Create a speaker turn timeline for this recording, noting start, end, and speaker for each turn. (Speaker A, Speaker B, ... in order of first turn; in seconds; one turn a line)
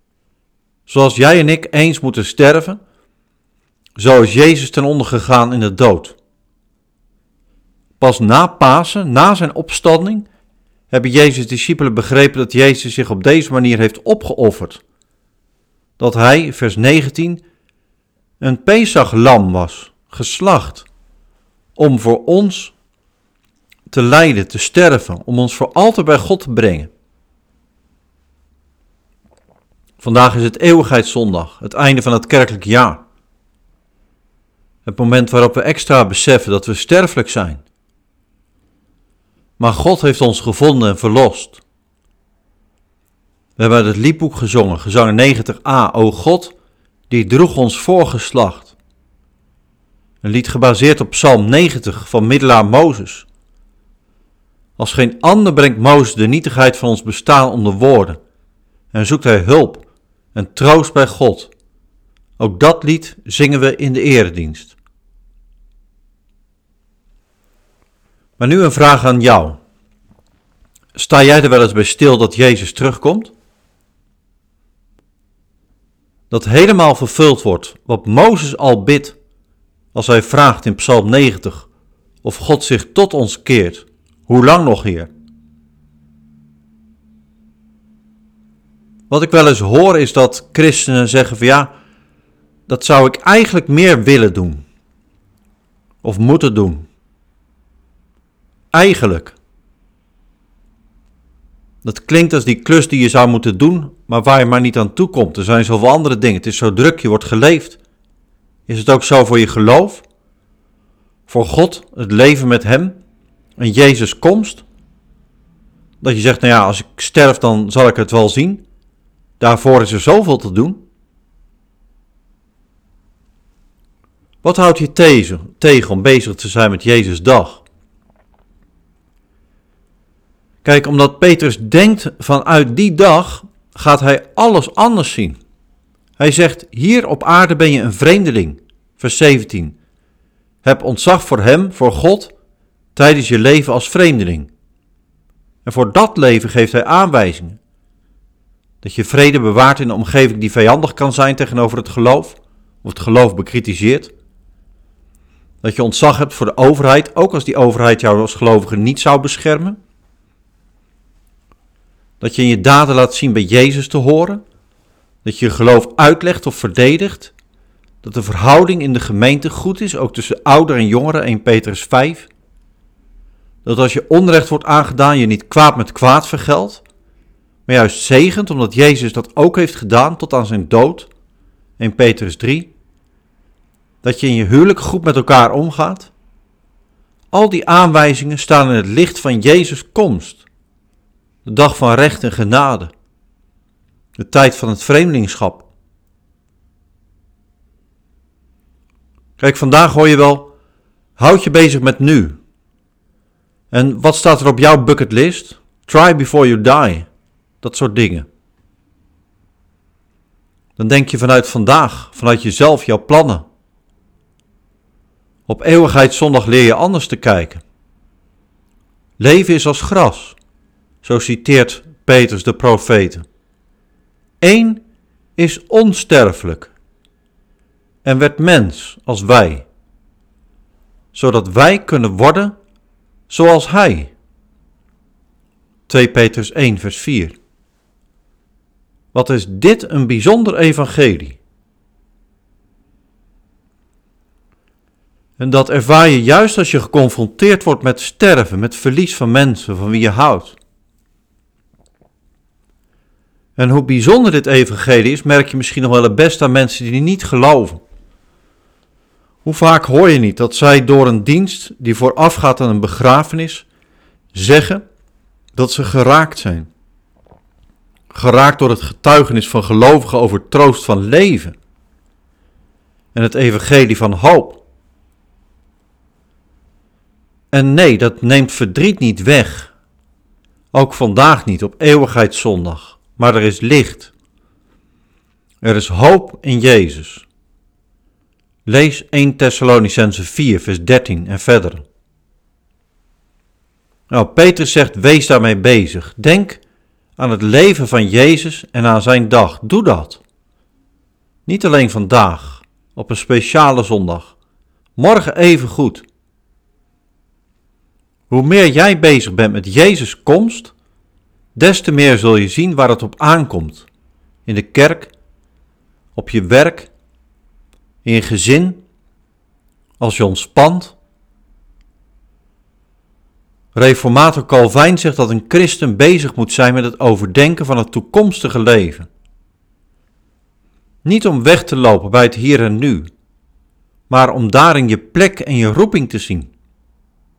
Speaker A: 0.9-2.8
Speaker A: 4.0-6.2
Speaker A: 8.0-10.3
Speaker A: 10.9-14.8
Speaker A: 16.0-17.4
Speaker A: 18.4-20.9
Speaker A: 21.8-22.7
Speaker A: 23.9-26.9
Speaker A: 30.0-33.0
Speaker A: 34.9-37.6
Speaker A: 39.6-41.6
Speaker A: 43.6-46.5
Speaker A: 47.1-48.8
Speaker A: 50.2-53.3
Speaker A: 54.8-58.2
Speaker A: 58.9-61.5
Speaker A: 62.4-64.8
Speaker A: 68.4-69.6
Speaker A: 71.0-73.3
Speaker A: 76.3-79.2
Speaker A: 79.9-81.7
Speaker A: 82.2-85.1
Speaker A: 89.1-91.7
Speaker A: 92.7-94.6
Speaker A: 96.0-96.9
Speaker A: 98.7-99.4
Speaker A: 101.8-107.8
Speaker A: 108.7-110.0
Speaker A: 111.3-113.0
Speaker A: 113.6-114.6
Speaker A: 116.0-118.6
Speaker A: 119.4-120.8
Speaker A: 124.4-127.6
Speaker A: 130.6-135.4
Speaker A: 136.2-139.8
Speaker A: 140.6-142.3
Speaker A: 142.9-144.5
Speaker A: 145.7-147.6
Speaker A: 148.8-154.1
Speaker A: 155.6-159.8
Speaker A: 162.2-164.4
Speaker A: 165.2-167.3
Speaker A: 168.0-172.3
Speaker A: 173.6-176.8
Speaker A: 177.7-181.1
Speaker A: 181.8-182.7
Speaker A: 184.0-186.1
Speaker A: 187.3-190.4
Speaker A: 191.4-192.9
Speaker A: 194.2-195.7
Speaker A: 199.4-200.5
Speaker A: 201.2-202.4
Speaker A: 203.7-207.1
Speaker A: 207.6-208.3
Speaker A: 210.8-213.4
Speaker A: 215.5-217.6
Speaker A: 219.2-220.4
Speaker A: 221.0-223.2
Speaker A: 224.4-224.8
Speaker A: 225.4-226.7
Speaker A: 228.0-229.7
Speaker A: 231.1-232.6
Speaker A: 233.3-234.1
Speaker A: 235.9-237.4
Speaker A: 239.1-241.4
Speaker A: 245.4-250.6
Speaker A: 253.6-257.8
Speaker A: 259.4-263.6
Speaker A: 264.3-264.8
Speaker A: 265.6-266.7
Speaker A: 268.1-271.6
Speaker A: 273.1-274.6
Speaker A: 277.5-279.7
Speaker A: 280.7-284.1
Speaker A: 285.6-287.2
Speaker A: 288.7-291.8
Speaker A: 294.1-296.6
Speaker A: 297.2-300.2
Speaker A: 301.5-304.4
Speaker A: 305.0-306.1
Speaker A: 308.3-310.7
Speaker A: 311.6-313.9
Speaker A: 314.5-315.1
Speaker A: 316.1-316.9
Speaker A: 318.0-318.8
Speaker A: 320.0-320.9
Speaker A: 323.8-329.1
Speaker A: 331.0-333.1
Speaker A: 334.1-336.5